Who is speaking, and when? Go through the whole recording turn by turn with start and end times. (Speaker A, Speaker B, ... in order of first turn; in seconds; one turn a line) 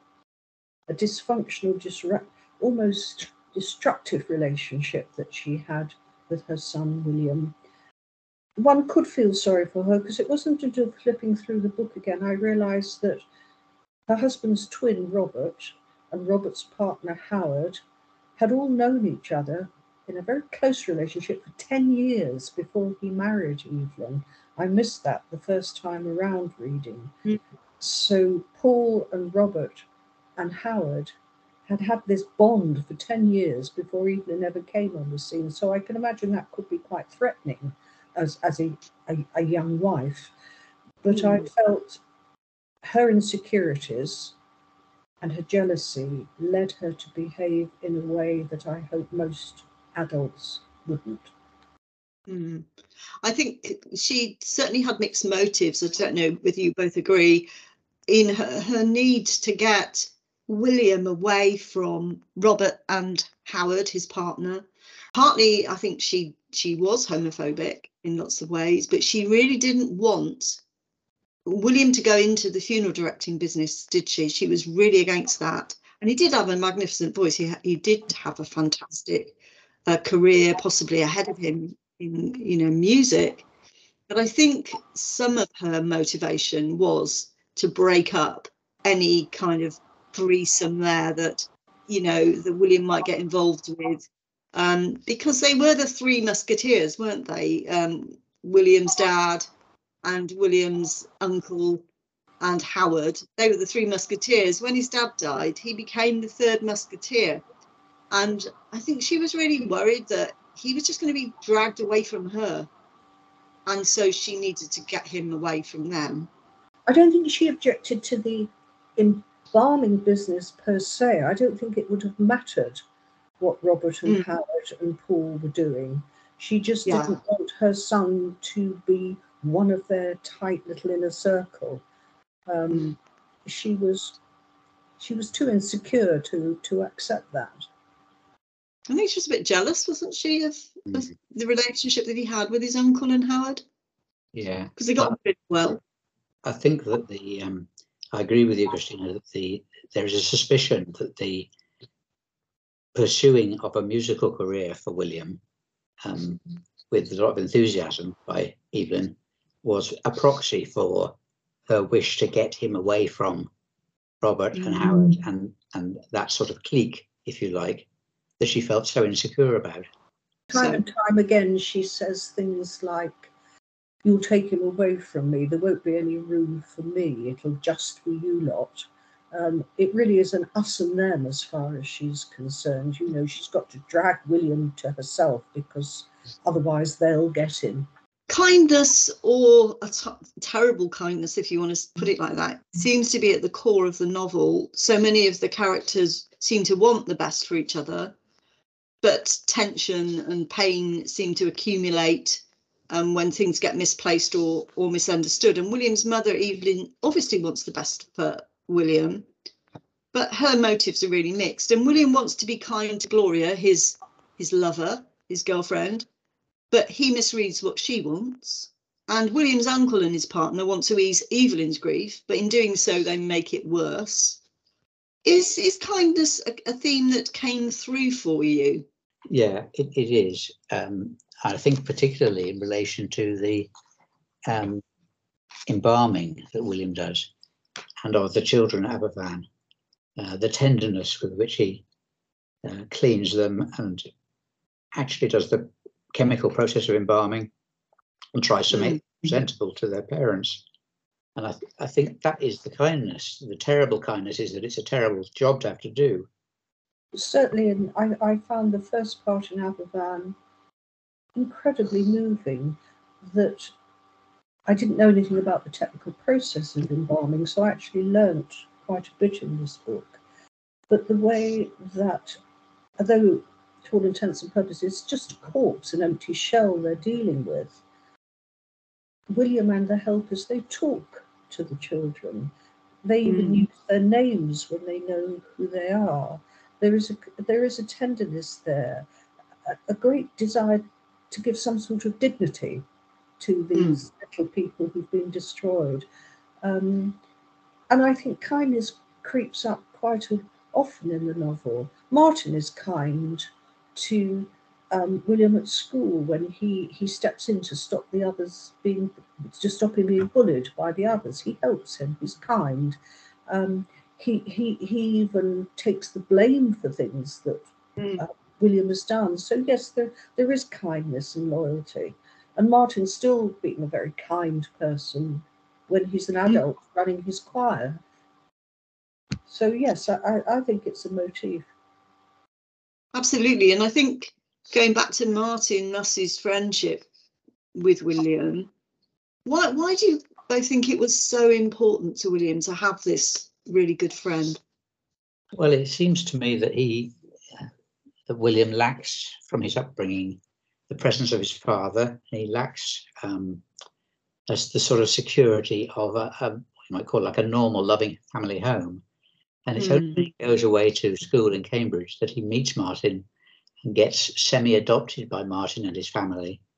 Speaker A: 0.9-7.5
Speaker A: 8.6-13.2
Speaker A: 14.1-17.8
Speaker A: 18.4-27.2
Speaker A: 27.8-29.8
Speaker A: 30.4-31.1
Speaker A: 31.7-40.3
Speaker A: 41.0-42.0
Speaker A: 42.8-44.3
Speaker A: 45.2-51.3
Speaker B: 52.3-52.7
Speaker B: 53.2-57.5
Speaker B: 58.1-70.6
Speaker B: 71.5-79.3
Speaker B: 79.9-83.5
Speaker B: 84.1-99.5
Speaker B: 100.0-101.8
Speaker B: 102.4-107.4
Speaker B: 108.1-112.7
Speaker B: 113.7-116.3
Speaker A: 116.9-122.8
Speaker A: 123.4-131.8
Speaker B: 126.9-127.2
Speaker A: 132.5-134.2
Speaker A: 135.0-137.7
Speaker B: 138.9-143.6
Speaker C: 144.3-145.2
Speaker B: 144.8-145.8
Speaker C: 146.4-151.5
Speaker C: 152.9-155.4
Speaker C: 156.0-161.2
Speaker C: 161.7-163.5
Speaker C: 164.2-167.9
Speaker B: 164.6-165.1
Speaker C: 168.4-169.9
Speaker A: 170.5-173.3
Speaker B: 170.5-170.8
Speaker A: 174.0-187.9
Speaker B: 188.3-198.1
Speaker B: 199.0-209.2
Speaker B: 210.1-216.1
Speaker B: 216.7-224.4
Speaker B: 225.3-228.8
Speaker C: 229.3-233.7
Speaker C: 234.5-234.8
Speaker C: 235.7-237.3
Speaker C: 238.0-239.5
Speaker C: 240.2-241.8
Speaker C: 242.6-244.1
Speaker C: 244.9-247.5
Speaker C: 248.3-250.6
Speaker B: 248.7-249.0
Speaker C: 251.4-256.3
Speaker A: 257.1-260.4
Speaker A: 261.4-263.7
Speaker A: 264.7-270.2
Speaker A: 270.9-272.4
Speaker A: 273.0-277.8
Speaker A: 279.3-282.5
Speaker A: 283.0-289.1
Speaker B: 283.3-283.6
Speaker A: 289.7-292.8
Speaker A: 293.4-296.1
Speaker A: 296.6-297.2
Speaker A: 297.9-328.0
Speaker B: 318.0-318.2
Speaker A: 329.5-331.7
Speaker B: 333.1-337.1
Speaker B: 337.8-338.7
Speaker B: 339.5-344.6
Speaker C: 345.5-347.7
Speaker C: 348.3-353.6
Speaker C: 354.5-359.0
Speaker C: 359.7-363.3
Speaker B: 359.8-360.2
Speaker C: 363.8-366.6